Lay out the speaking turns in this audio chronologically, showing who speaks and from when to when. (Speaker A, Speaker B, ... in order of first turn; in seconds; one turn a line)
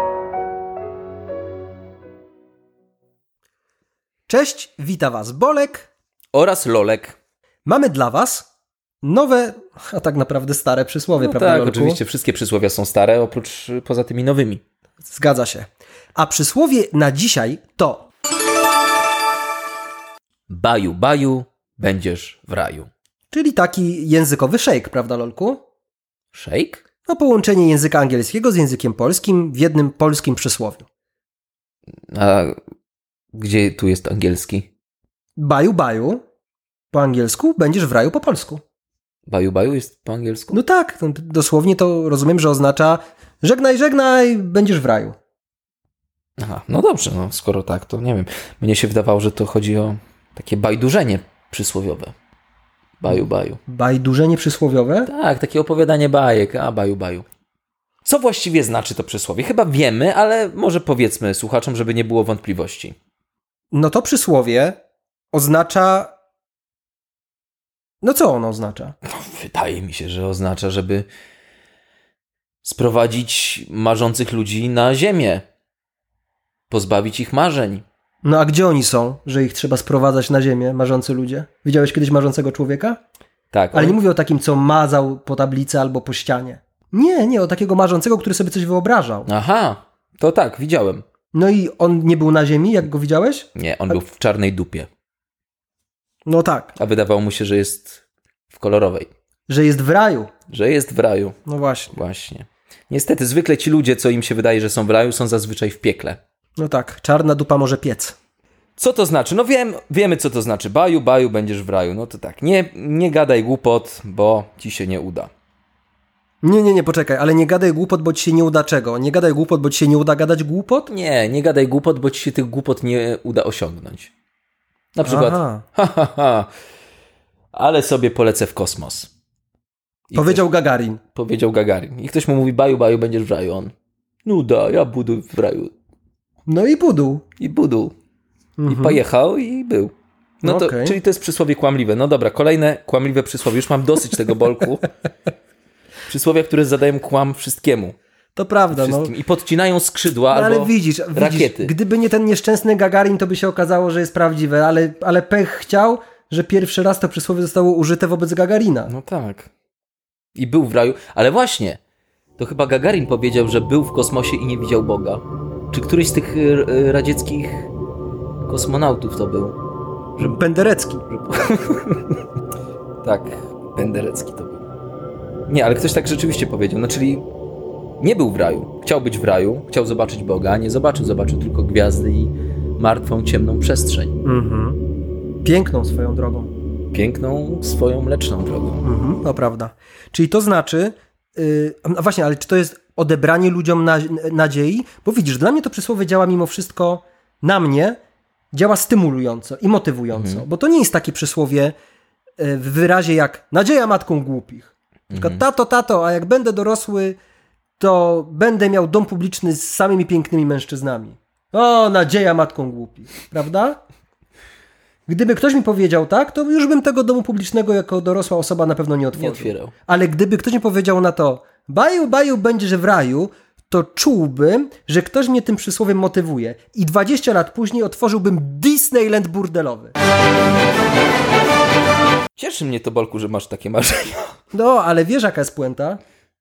Speaker A: 4.3-5.9
Speaker B: 6.3-7.2
Speaker A: 7.7-8.4
Speaker A: 9.0-12.0
Speaker B: 11.2-14.6
Speaker A: 15.0-18.1
Speaker B: 20.5-22.9
Speaker A: 23.3-25.6
Speaker B: 26.3-26.8
Speaker A: 27.1-30.9
Speaker B: 32.1-32.6
Speaker B: 33.3-34.7
Speaker A: 35.4-36.2
Speaker A: 36.9-38.6
Speaker B: 39.3-40.6
Speaker A: 40.5-45.1
Speaker B: 46.4-52.1
Speaker B: 53.0-53.6
Speaker A: 53.7-55.1
Speaker B: 55.1-57.2
Speaker B: 58.0-63.0
Speaker A: 63.7-64.8
Speaker A: 65.3-66.1
Speaker A: 68.0-69.0
Speaker B: 69.1-71.1
Speaker B: 72.6-75.4
Speaker B: 76.7-77.8
Speaker A: 78.2-83.0
Speaker B: 83.5-84.0
Speaker A: 83.7-89.3
Speaker B: 89.2-91.0
Speaker A: 91.3-94.0
Speaker B: 93.5-94.9
Speaker A: 96.2-96.8
Speaker B: 96.8-99.1
Speaker A: 99.5-100.3
Speaker B: 100.5-101.4
Speaker A: 101.5-101.9
Speaker B: 101.9-106.2
Speaker A: 106.6-108.1
Speaker B: 108.8-115.3
Speaker A: 116.4-120.9
Speaker B: 120.9-124.1
Speaker B: 124.9-126.5
Speaker A: 125.0-125.6
Speaker B: 127.5-129.1
Speaker B: 130.1-130.4
Speaker A: 130.1-131.0
Speaker B: 131.1-133.7
Speaker B: 134.2-135.7
Speaker A: 136.5-137.2
Speaker B: 137.4-137.9
Speaker A: 138.6-139.0
Speaker B: 138.7-144.9
Speaker A: 140.4-141.0
Speaker B: 146.1-147.9
Speaker A: 148.3-149.1
Speaker B: 148.7-151.7
Speaker A: 150.3-158.9
Speaker B: 158.9-159.5
Speaker B: 160.3-161.8
Speaker B: 162.4-167.7
Speaker B: 168.4-169.6
Speaker A: 170.2-171.1
Speaker B: 171.1-172.2
Speaker B: 173.0-174.6
Speaker B: 175.5-177.2
Speaker B: 178.0-184.2
Speaker A: 184.2-184.8
Speaker A: 185.4-186.5
Speaker B: 186.9-188.8
Speaker A: 188.8-198.0
Speaker A: 198.5-201.7
Speaker B: 200.1-200.4
Speaker A: 202.4-207.2
Speaker B: 205.1-205.4
Speaker A: 207.8-213.8
Speaker A: 215.1-229.9
Speaker B: 219.1-219.7
Speaker B: 232.3-234.3
Speaker A: 234.5-236.0